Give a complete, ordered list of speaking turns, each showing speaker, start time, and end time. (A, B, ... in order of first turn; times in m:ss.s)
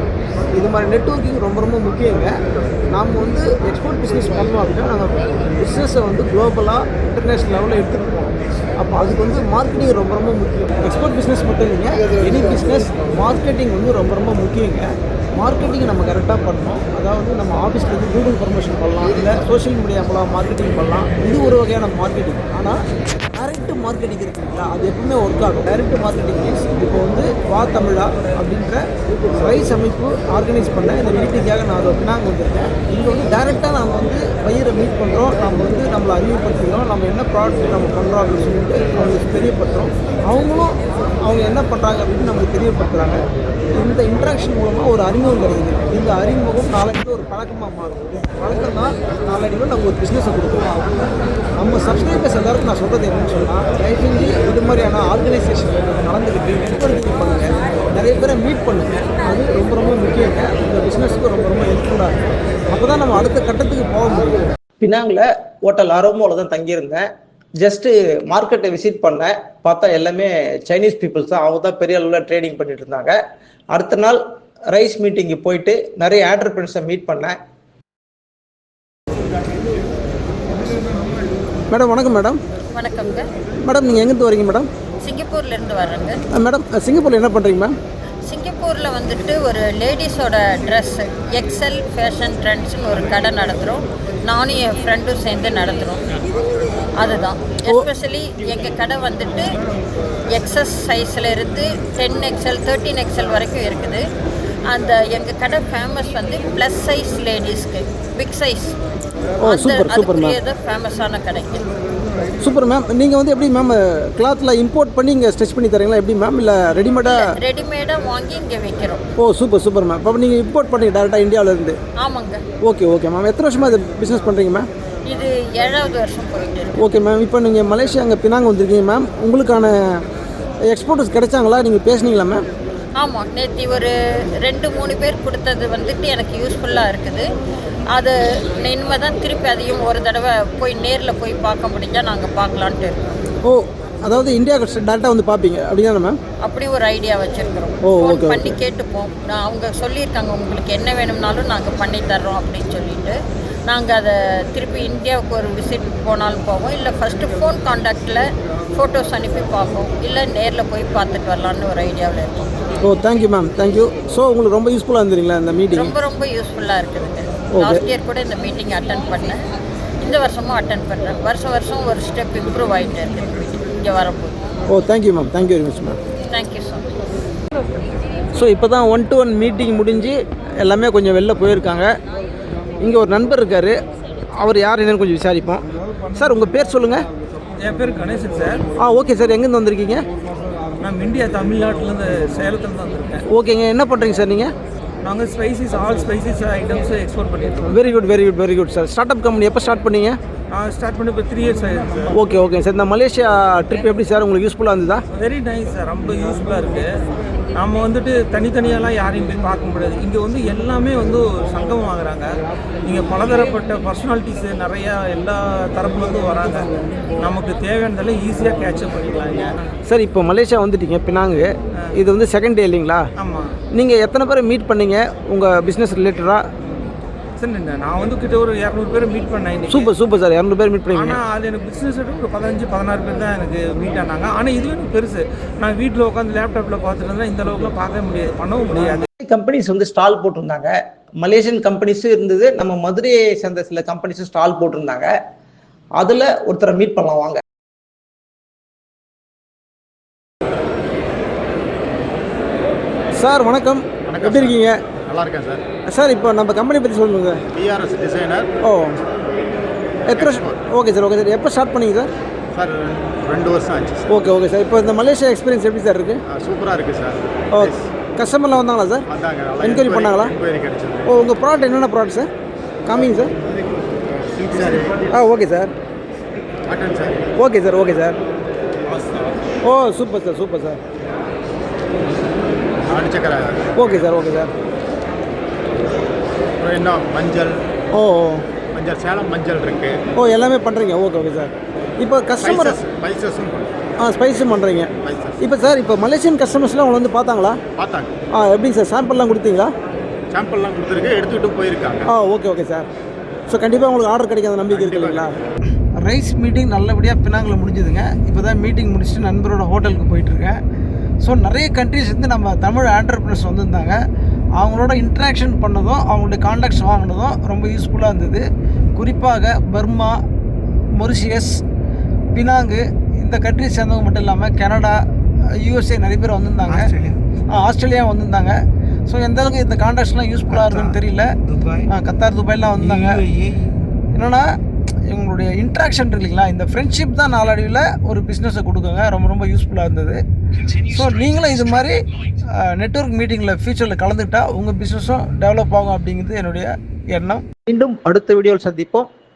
0:00.5-0:02.3 A
0:02.9-0:22.8 A
0:23.4-0:43.2 A
0:43.8-0:50.7 A
0:51.6-1:02.2 A
1:02.7-1:04.4 A
1:04.8-1:07.0 B
1:07.6-1:13.2 B
1:13.7-1:14.2 B
1:14.7-1:17.4 B
1:21.7-1:22.4 A
1:22.7-1:23.3 C
1:23.6-1:24.7 A
1:25.0-1:26.2 C
1:26.3-1:27.7 A
1:28.3-1:36.1 C
1:37.0-1:39.5 C
1:40.3-1:44.0 C
1:44.7-1:48.7 C
1:49.4-1:50.4 A
1:49.4-1:51.7 C
1:52.4-1:57.3 A
1:57.0-1:59.0 C
1:59.2-2:01.8 A
2:02.0-2:02.4 C
2:02.6-2:04.7 A
2:05.0-2:06.8 C
2:06.8-2:10.0 A
2:10.7-2:12.4 A
2:13.0-2:13.9 C
2:14.4-2:17.3 C
2:17.9-2:23.2 C
2:23.4-2:26.2 A
2:26.4-2:38.2 C
2:27.8-2:28.6 A
2:38.7-2:42.5 C
2:42.8-2:45.9 A
2:45.7-2:49.4 C
2:47.5-2:47.8 A
2:50.0-2:54.4 C
2:54.7-2:56.0 A
2:56.3-2:56.9 C
2:58.3-3:01.9 A
3:02.8-3:03.8 A
3:04.4-3:07.0 A
3:07.6-3:08.6 D
3:08.8-3:10.0 A
3:10.8-3:13.2 D
3:13.3-3:14.5 A
3:15.0-3:17.7 D
3:17.7-3:20.2 A
3:20.5-3:22.2 D
3:22.1-3:25.0 A
3:25.1-3:26.9 D
3:27.5-3:36.7 D
3:37.2-3:39.6 D
3:39.9-3:43.1 A
3:43.2-3:43.6 D
3:43.7-3:46.4 A
3:46.7-3:49.9 D
3:49.7-3:51.2 A
3:50.9-3:59.1 D
3:59.2-4:00.7 B
4:01.2-4:05.1 B
4:06.0-4:07.4 B
4:13.2-4:14.8 A
4:14.1-4:15.6 E
4:15.9-4:17.4 A
4:17.5-4:18.5 E
4:18.6-4:19.0 A
4:20.1-4:22.1 A
4:20.1-4:20.6 E
4:22.5-4:24.2 E
4:24.1-4:26.2 A
4:26.3-4:27.8 E
4:27.5-4:29.0 A
4:29.1-4:31.1 E
4:29.6-4:30.3 A
4:31.0-4:32.3 A
4:32.8-4:33.3 A
4:34.3-4:35.0 E
4:35.1-4:35.7 A
4:36.7-4:37.3 E
4:37.4-4:38.2 A
4:38.9-4:39.2 E
4:39.6-4:40.8 A
4:42.8-4:43.9 E
4:43.7-4:44.5 A
4:46.6-4:47.6 E
4:47.9-4:48.4 A
4:48.7-4:50.0 E
4:50.2-4:52.8 A
4:52.4-4:53.7 E
4:54.0-4:57.6 A
4:55.0-4:55.4 E
4:57.8-4:58.1 E
4:58.3-4:59.7 A
5:00.3-5:02.0 E
5:02.1-5:02.8 A
5:03.5-5:05.4 A
5:04.7-5:05.3 E
5:06.0-5:10.6 A
5:11.2-5:14.0 A
5:14.6-5:20.2 A
5:21.0-5:21.6 A
5:22.3-5:25.0 A
5:25.6-5:27.0 A
5:27.5-5:33.3 A
5:33.4-5:33.7 D
5:34.1-5:34.5 A
5:35.1-5:40.2 A
5:40.8-5:41.9 A
5:42.6-5:47.4 A
5:47.6-5:49.1 B